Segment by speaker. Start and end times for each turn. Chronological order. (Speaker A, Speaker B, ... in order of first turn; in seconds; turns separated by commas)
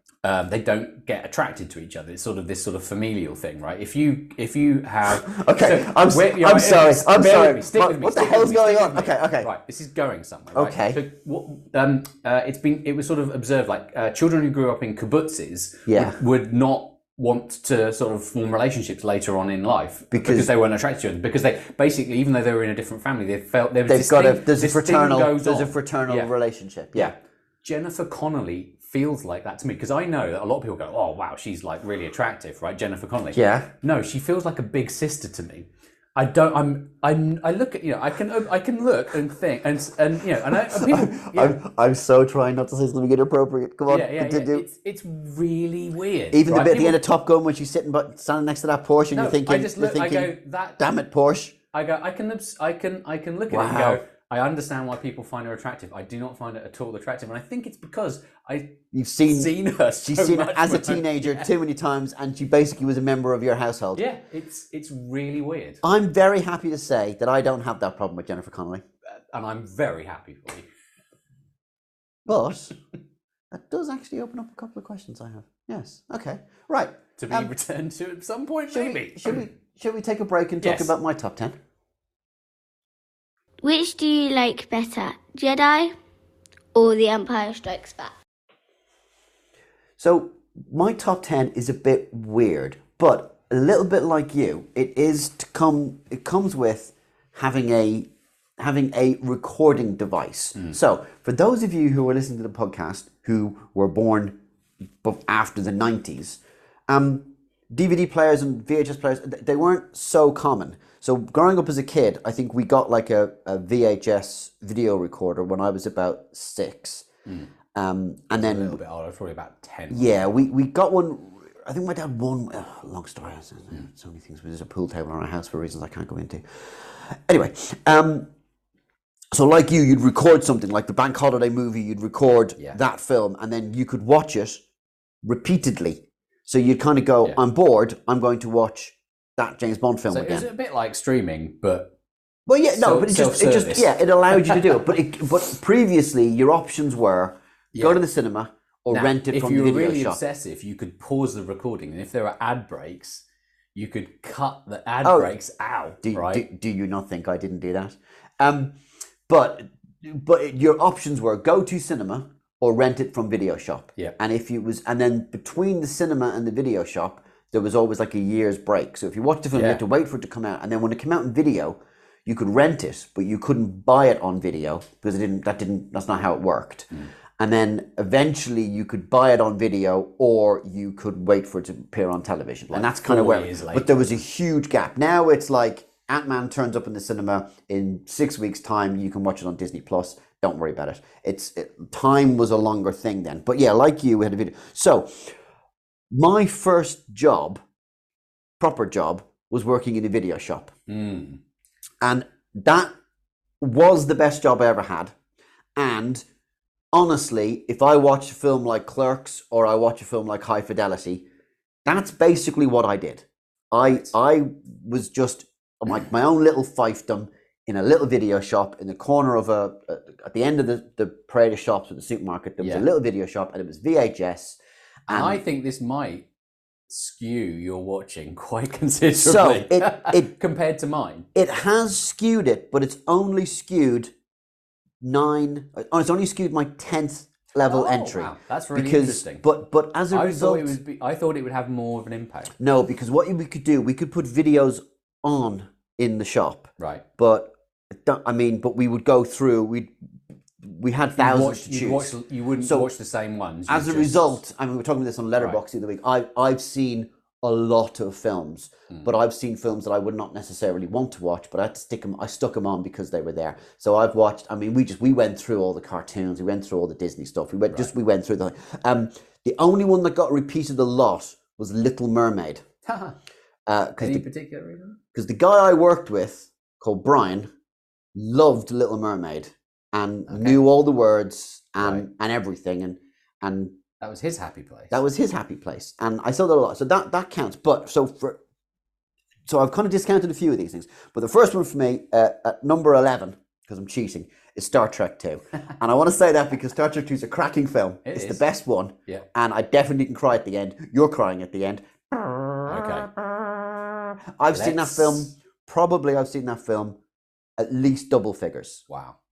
Speaker A: 0.2-26.3, Speaker B: 5.1-9.5, Speaker B: 10.5-11.0, Speaker B: 15.9-16.2, Speaker B: 20.1-20.5, Speaker B: 23.9-27.1, Speaker A: 26.9-41.6, Speaker B: 33.3-33.7, Speaker B: 40.7-44.7, Speaker A: 43.9-47.0, Speaker B: 46.3-51.6, Speaker A: 49.1-50.8, Speaker A: 51.7-61.5, Speaker B: 53.5-54.0, Speaker B: 58.9-59.5, Speaker B: 60.0-64.0, Speaker A: 64.0-65.8, Speaker B: 65.8-68.8, Speaker A: 69.2-70.7, Speaker B: 72.3-72.8, Speaker B: 73.5-77.5, Speaker A: 77.2-79.4, Speaker B: 78.7-81.6, Speaker A: 80.6-81.0, Speaker C: 83.6-86.0, Speaker C: 86.8-88.1, Speaker B: 90.0-104.4, Speaker B: 105.0-117.1, Speaker B: 117.7-118.8, Speaker A: 118.3-120.3, Speaker B: 119.9-128.3, Speaker B: 129.3-134.6, Speaker B: 135.2-140.5, Speaker A: 140.1-141.9, Speaker B: 142.5-150.2, Speaker A: 142.7-144.8, Speaker A: 147.7-148.1, Speaker A: 148.9-153.2, Speaker A: 153.8-156.4, Speaker B: 155.1-155.3, Speaker B: 156.0-158.8, Speaker B: 159.3-195.4, Speaker A: 169.6-169.8, Speaker A: 182.7-184.2, Speaker B: 196.1-197.6, Speaker B: 198.6-200.7, Speaker A: 200.9-201.4, Speaker B: 202.0-202.9, Speaker B: 203.6-205.1, Speaker B: 205.8-206.2, Speaker B: 206.9-211.2, Speaker B: 211.8-225.4, Speaker A: 222.6-222.9, Speaker A: 225.1-226.3, Speaker A: 226.9-231.3, Speaker B: 229.1-230.3, Speaker B: 231.3-234.1, Speaker B: 235.0-240.8, Speaker A: 237.7-239.4, Speaker A: 240.1-242.5, Speaker B: 242.6-249.9, Speaker A: 246.8-247.0, Speaker B: 250.6-252.9, Speaker A: 251.2-254.4, Speaker B: 253.7-272.6, Speaker A: 272.9-273.2, Speaker B: 273.7-274.3, Speaker A: 274.0-275.0, Speaker B: 275.1-277.5, Speaker B: 278.1-283.8, Speaker A: 280.3-280.6, Speaker A: 281.8-282.1, Speaker A: 284.0-284.9, Speaker B: 284.9-288.4, Speaker B: 289.5-307.0, Speaker A: 298.1-298.4, Speaker A: 302.7-303.1, Speaker A: 304.5-305.3, Speaker B: 307.6-308.8, Speaker A: 308.9-309.2